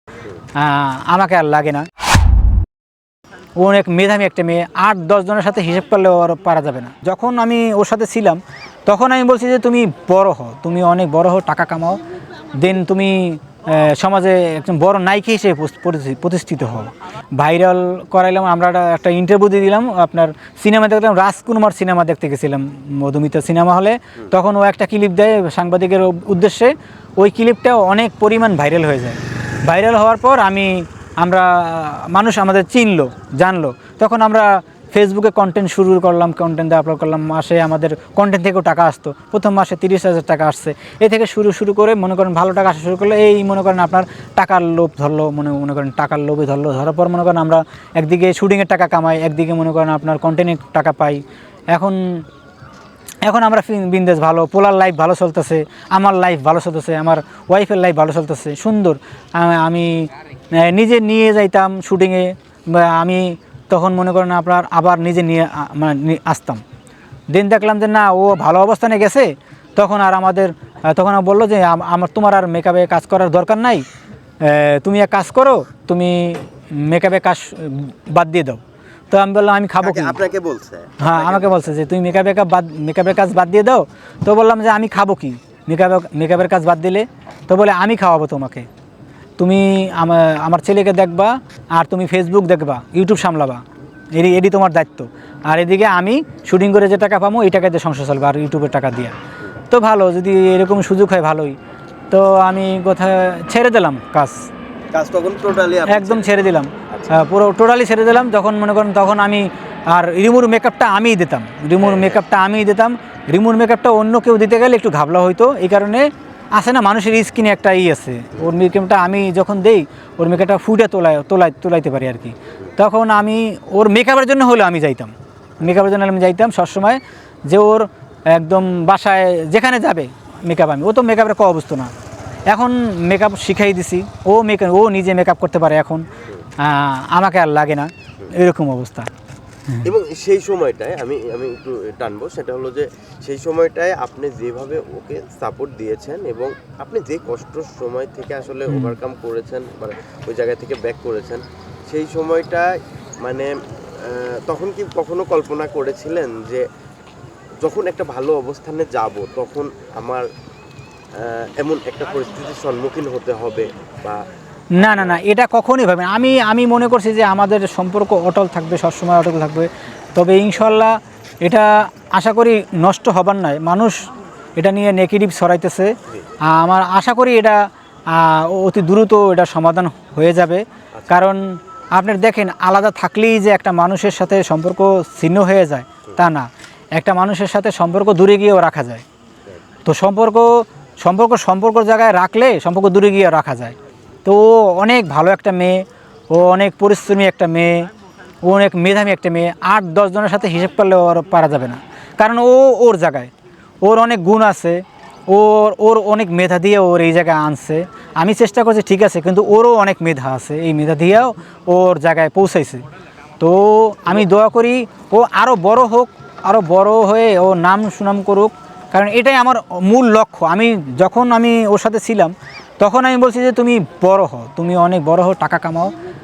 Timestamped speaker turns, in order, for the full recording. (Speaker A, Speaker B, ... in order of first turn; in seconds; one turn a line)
Speaker A: 0.6-1.9
Speaker A: 3.6-12.0
Speaker A: 12.5-52.3
Speaker A: 53.2-66.6
Speaker A: 67.3-73.9
Speaker A: 74.4-80.2
Speaker B: 79.8-81.7
Speaker A: 81.0-88.7
Speaker A: 89.4-99.2
Speaker A: 99.7-101.6
Speaker A: 102.1-104.5
Speaker B: 104.9-107.1
Speaker A: 105.9-131.9
Speaker B: 111.8-112.2
Speaker A: 132.5-136.1
Speaker A: 136.6-139.1
Speaker B: 139.8-156.7
Speaker B: 157.6-160.2
Speaker B: 161.2-164.2
Speaker A: 164.8-189.1
Speaker B: 164.8-165.2
Speaker A: 189.8-197.9
Speaker A: 198.4-203.3
Speaker A: 203.8-212.8
Speaker A: 213.4-226.0